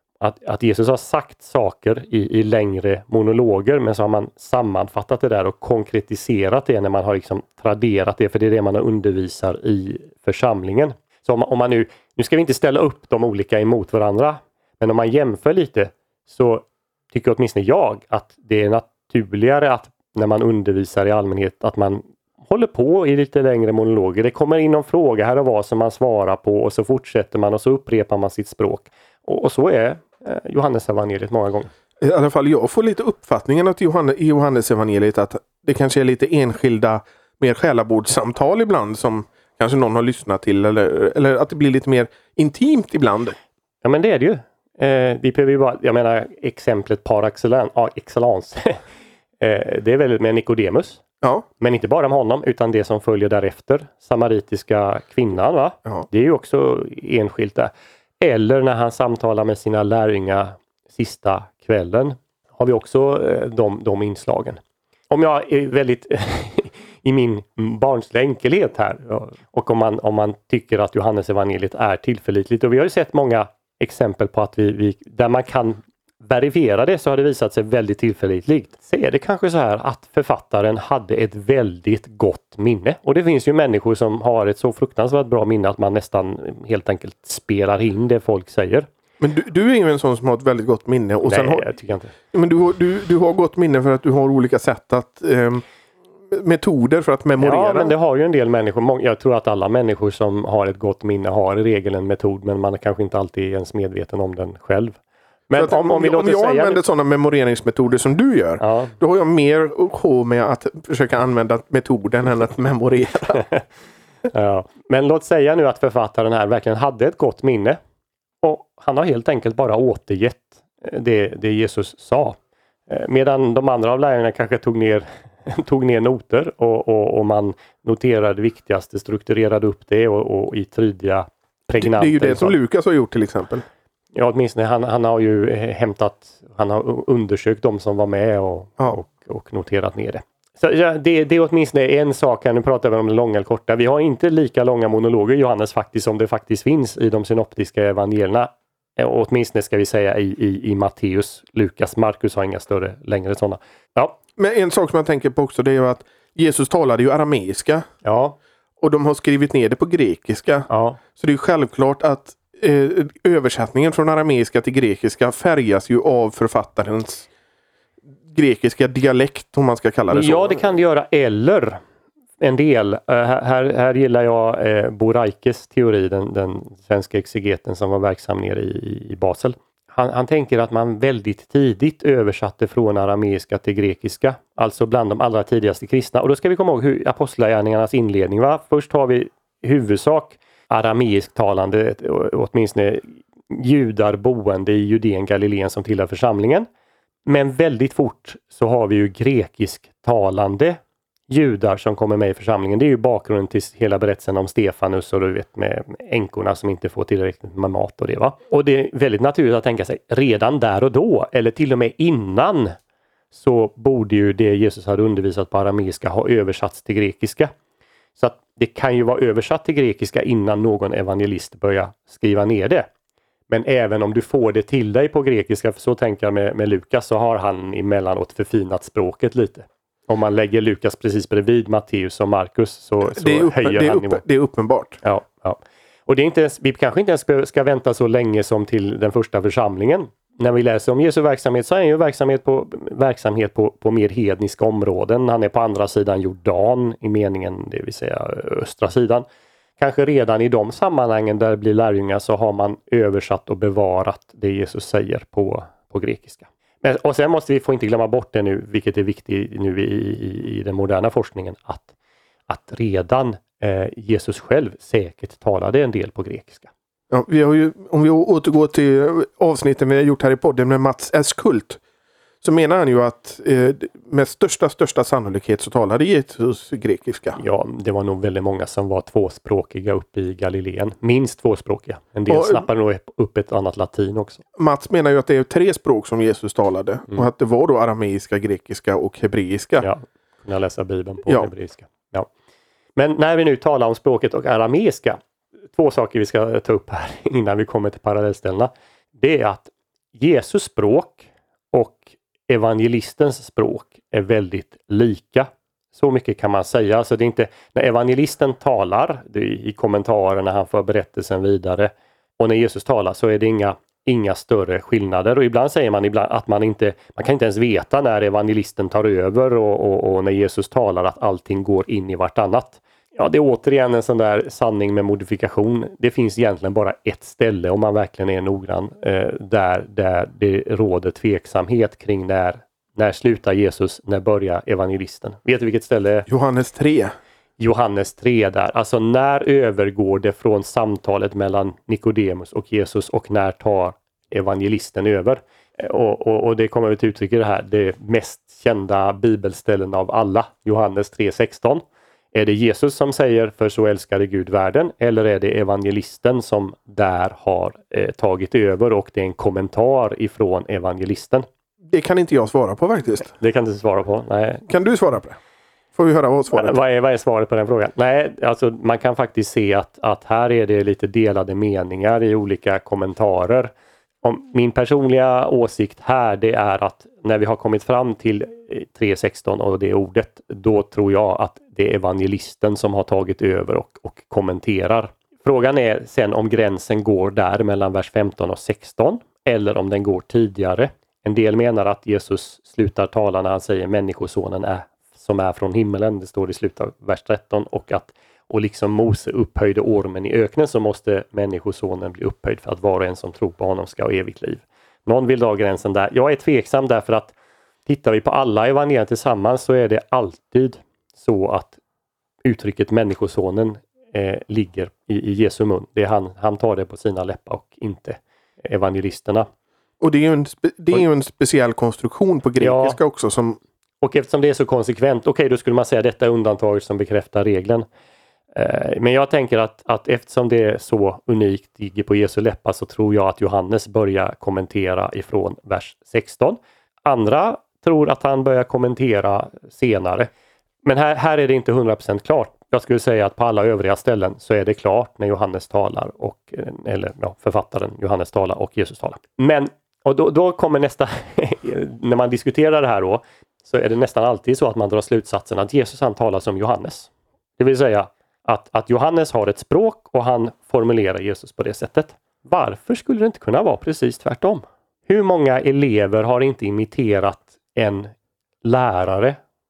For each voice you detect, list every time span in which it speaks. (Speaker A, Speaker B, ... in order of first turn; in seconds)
Speaker A: 0.2-31.7, 43.8-48.8, 49.4-51.0, 51.6-64.6, 65.1-88.9, 91.2-92.1, 97.4-106.8, 108.6-108.9, 114.3-117.8, 118.4-122.3, 122.9-132.6, 134.1-154.2, 158.0-158.4, 160.7-161.0, 170.1-171.8, 172.4-196.7, 197.2-212.8, 213.3-217.5, 218.2-222.9, 223.5-234.2, 235.0-249.2, 249.8-261.9, 262.5-266.7, 277.4-284.4, 289.8-292.3, 292.9-295.2, 295.7-336.3, 337.6-361.4, 363.3-364.7, 366.5-373.7, 374.2-407.3, 407.9-411.8, 412.4-419.5, 422.6-423.0, 424.0-427.9, 428.5-440.3, 440.8-469.4
Speaker B: 32.0-43.4, 89.2-91.7, 92.3-95.6, 96.3-98.0, 105.6-113.4, 131.7-133.6, 154.4-157.8, 158.8-167.3, 168.2-170.6, 233.0-235.0, 267.1-271.8, 272.4-277.4, 282.3-282.6, 284.6-289.9, 336.3-337.1, 361.8-363.3, 364.7-365.4, 365.9-366.8, 420.0-423.6